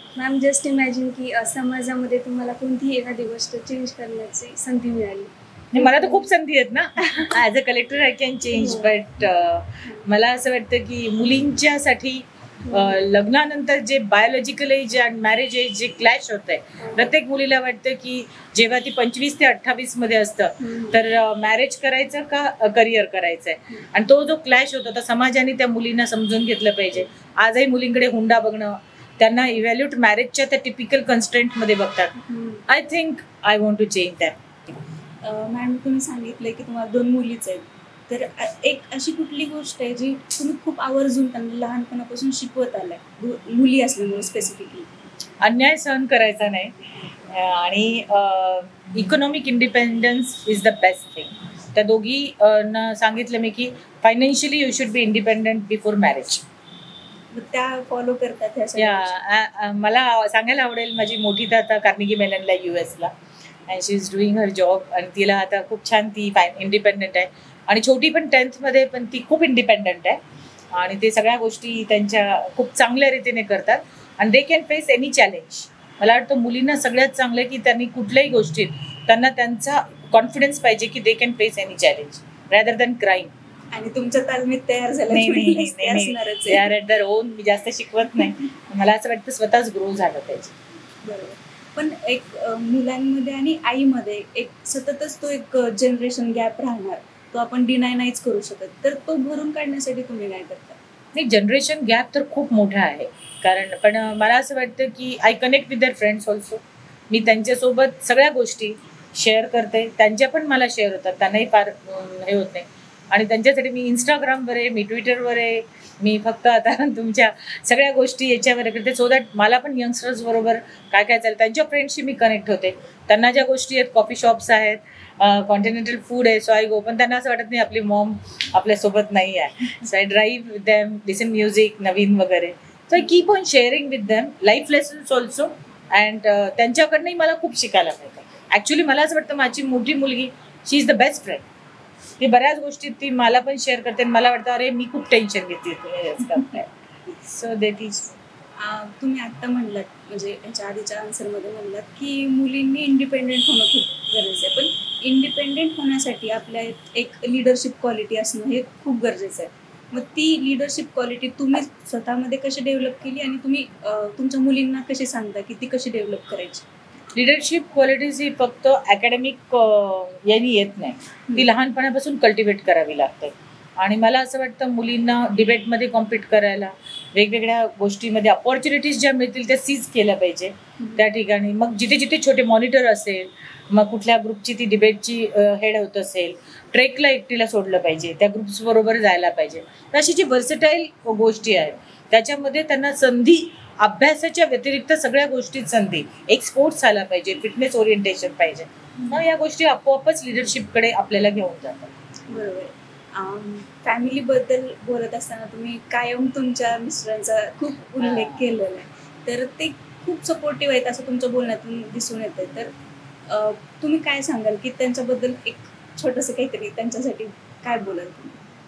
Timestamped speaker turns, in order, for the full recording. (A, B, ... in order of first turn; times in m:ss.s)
0:00.1-0:06.3 A
0:05.7-0:32.1 B
0:07.0-0:07.3 A
0:08.5-0:09.0 A
0:12.6-0:13.1 A
0:16.8-0:17.1 A
0:20.6-0:21.0 A
0:32.3-0:32.6 A
0:32.7-0:34.4 B
0:35.2-0:44.9 C
0:45.4-0:46.7 B
0:47.3-0:56.4 B
0:57.3-0:59.2 C
0:58.8-1:03.1 B
1:03.7-1:10.2 B
1:10.7-1:23.3 B
1:23.7-1:26.7 C
1:25.1-1:30.5 B
1:31.0-1:40.8 C
1:41.1-2:21.4 B
2:22.2-2:28.2 B
2:28.6-2:46.6 C
2:47.1-3:21.9 B
3:19.0-3:19.2 C
3:22.3-3:32.7 C
3:28.0-3:28.4 B
3:33.3-3:38.4 C